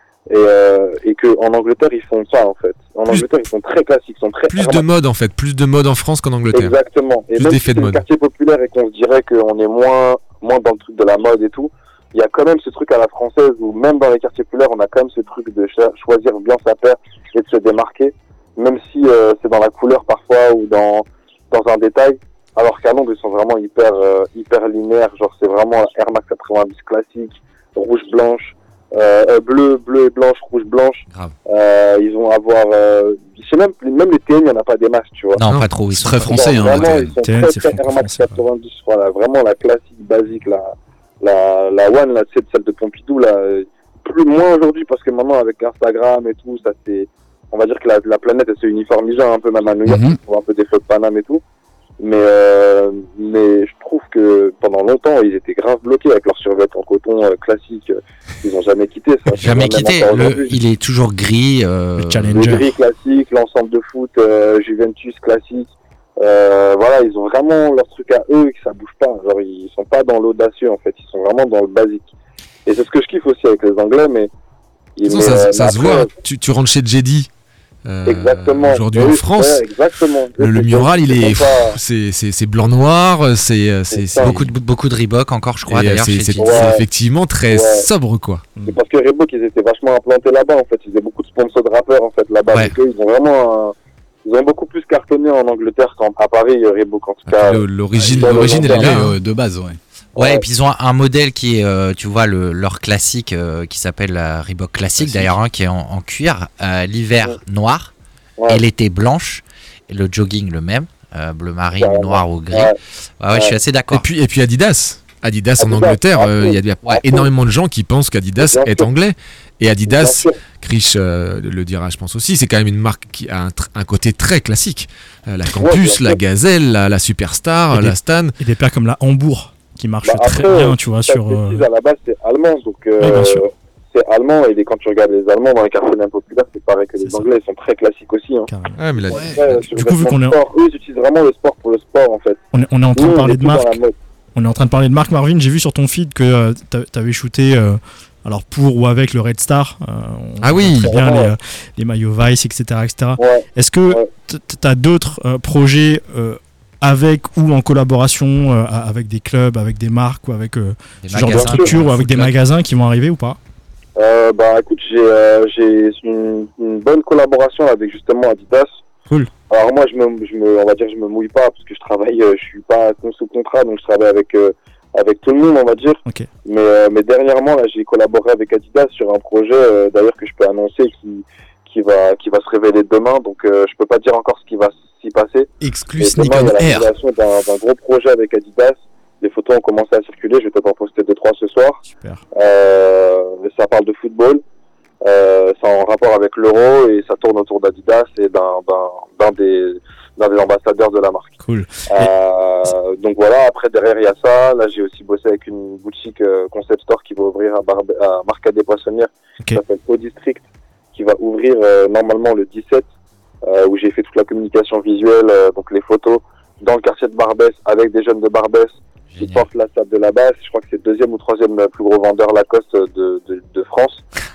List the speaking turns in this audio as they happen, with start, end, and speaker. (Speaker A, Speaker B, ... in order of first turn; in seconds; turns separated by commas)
Speaker A: 0.3-4.8, Speaker B: 4.5-6.8, Speaker A: 6.5-35.4, Speaker B: 7.3-8.0, Speaker C: 31.1-31.4, Speaker B: 35.4-35.7, Speaker C: 35.4-36.9, Speaker D: 36.0-37.1, Speaker A: 36.1-51.4, Speaker E: 37.2-38.4, Speaker D: 49.9-50.2, Speaker A: 52.0-60.6, Speaker C: 59.4-62.6, Speaker E: 62.0-62.6, Speaker A: 62.3-72.1, Speaker A: 72.7-74.3, Speaker A: 75.0-76.1, Speaker B: 75.0-77.3, Speaker B: 77.8-79.7, Speaker A: 78.1-81.8, Speaker B: 80.4-84.5, Speaker A: 83.9-84.4, Speaker C: 84.2-86.7, Speaker B: 85.7-88.5, Speaker A: 86.4-86.8, Speaker A: 87.5-87.9, Speaker A: 88.7-93.8, Speaker A: 94.3-98.9, Speaker B: 97.3-99.2, Speaker D: 98.1-99.8, Speaker C: 100.2-107.9, Speaker A: 100.2-100.4, Speaker A: 108.4-108.6, Speaker C: 108.5-114.0, Speaker A: 111.8-112.8, Speaker B: 113.9-128.4, Speaker A: 115.6-117.3, Speaker A: 118.4-118.9, Speaker A: 119.9-120.4, Speaker A: 125.5-126.2, Speaker E: 127.7-131.7, Speaker A: 130.0-138.5, Speaker E: 133.0-133.4, Speaker E: 137.0-137.3, Speaker E: 138.5-140.4, Speaker B: 138.8-139.3, Speaker D: 139.1-139.4, Speaker A: 139.3-142.4, Speaker E: 142.5-143.8, Speaker A: 142.9-143.9, Speaker E: 144.3-163.4, Speaker B: 150.4-150.9, Speaker A: 150.8-151.3, Speaker A: 153.2-154.1, Speaker C: 161.0-162.3, Speaker A: 161.3-161.8, Speaker A: 164.0-168.8, Speaker A: 169.5-191.8, Speaker D: 185.6-186.9, Speaker E: 191.8-192.2, Speaker A: 192.3-194.4, Speaker A: 195.0-201.4, Speaker E: 201.4-202.1, Speaker A: 201.9-212.9, Speaker A: 213.4-224.1, Speaker C: 219.1-219.5